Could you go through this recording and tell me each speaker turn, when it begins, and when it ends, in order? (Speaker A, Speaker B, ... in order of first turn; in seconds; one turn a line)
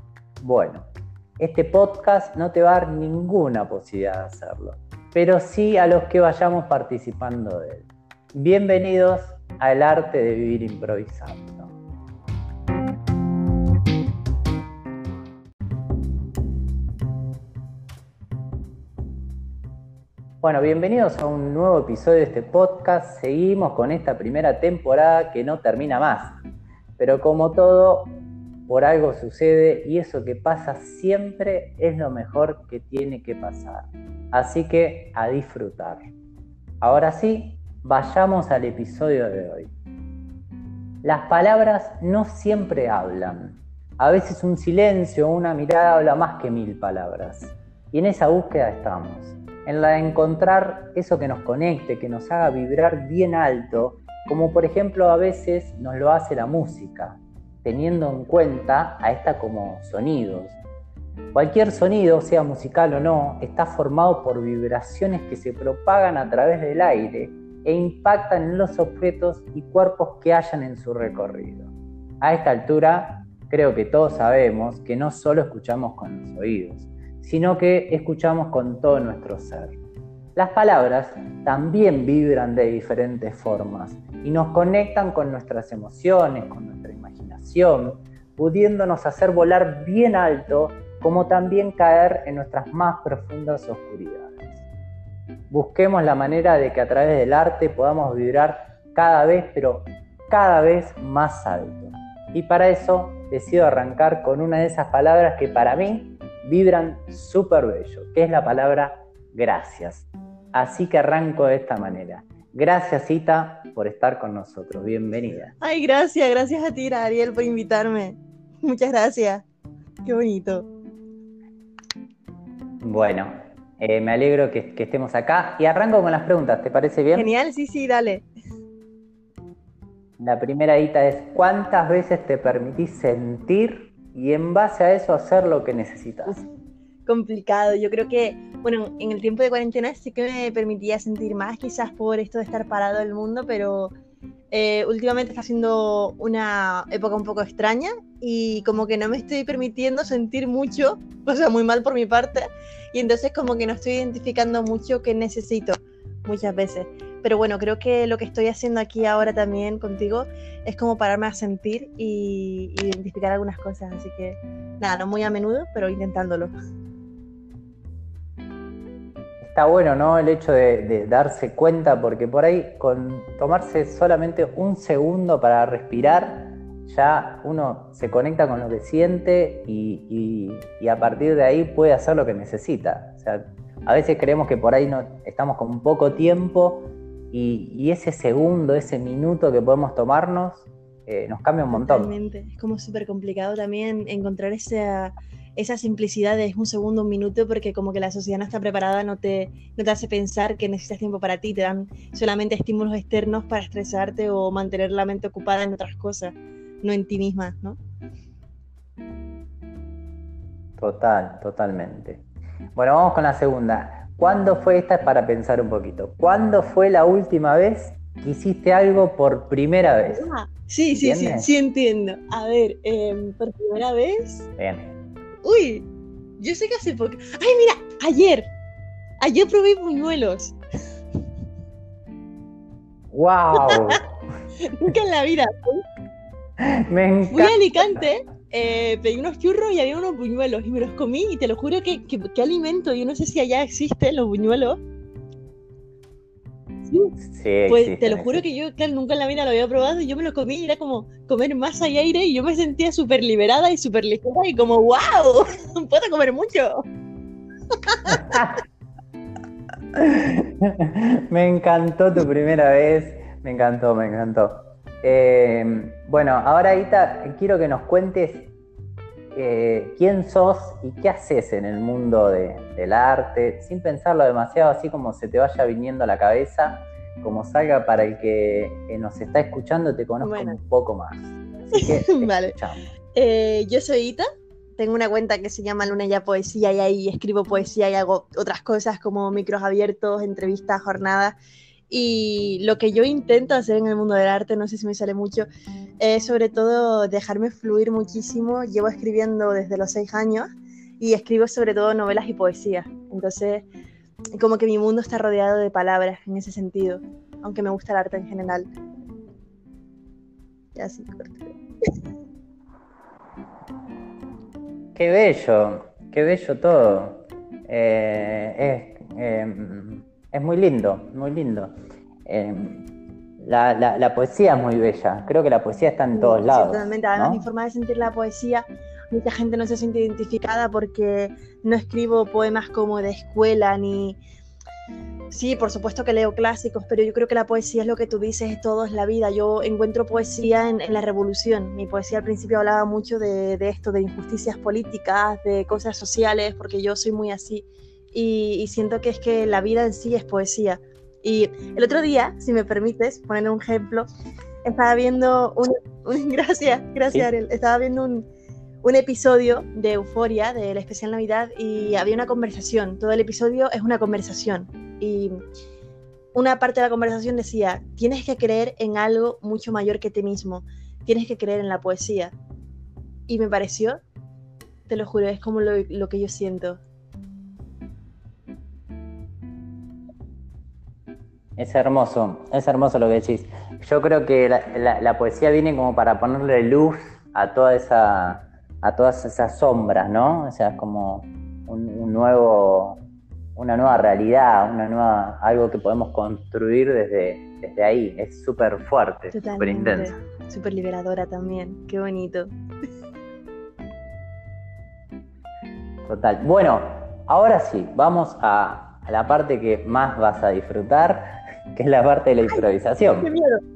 Speaker A: 0.4-0.8
Speaker A: 1.4-11.7
Speaker A: 20.4-26.4
Speaker A: 27.0-36.1
Speaker A: 36.8-39.7
Speaker A: 41.0-60.6
Speaker A: 61.3-79.8
Speaker A: 80.3-94.6
Speaker A: 95.5-115.5
Speaker B: 115.6-119.4
Speaker B: 120.0-120.7
Speaker A: 122.8-127.3
Speaker B: 127.1-128.3
Speaker A: 130.2-136.4
Speaker B: 137.1-143.9
Speaker B: 144.5-166.5
Speaker A: 169.4-192.1
Speaker B: 191.7-207.8
Speaker A: 210.8-212.2
Speaker A: 212.8-220.3
Speaker B: 220.1-224.5
Speaker A: 220.9-221.5
Speaker A: 224.6-224.9
Speaker B: 225.4-225.9
Speaker B: 226.4-228.5
Speaker B: 229.2-230.6
Speaker A: 233.1-234.0
Speaker B: 233.5-234.0
Speaker B: 234.6-235.8
Speaker A: 236.6-238.0
Speaker B: 237.3-244.8
Speaker B: 246.9-247.1
Speaker A: 247.2-248.4
Speaker B: 247.7-256.9
Speaker A: 258.1-258.6
Speaker A: 259.9-268.5
Speaker A: 269.3-282.9
Speaker B: 280.2-280.6
Speaker B: 281.7-282.5
Speaker B: 283.1-284.2
Speaker B: 284.8-291.4
Speaker B: 291.9-295.5
Speaker B: 296.0-303.7
Speaker B: 304.4-308.7
Speaker B: 310.7-311.5
Speaker A: 314.9-321.7
Speaker A: 322.2-322.8
Speaker A: 323.4-327.4
Speaker B: 326.1-334.2
Speaker B: 335.3-354.1
Speaker B: 354.6-358.3
Speaker B: 358.8-365.4
Speaker B: 366.3-372.3
Speaker B: 373.3-374.0
Speaker B: 374.9-376.8
Speaker A: 381.6-393.0
Speaker A: 393.6-400.1
Speaker B: 399.3-402.5
Speaker A: 406.1-413.3
Speaker B: 413.2-413.6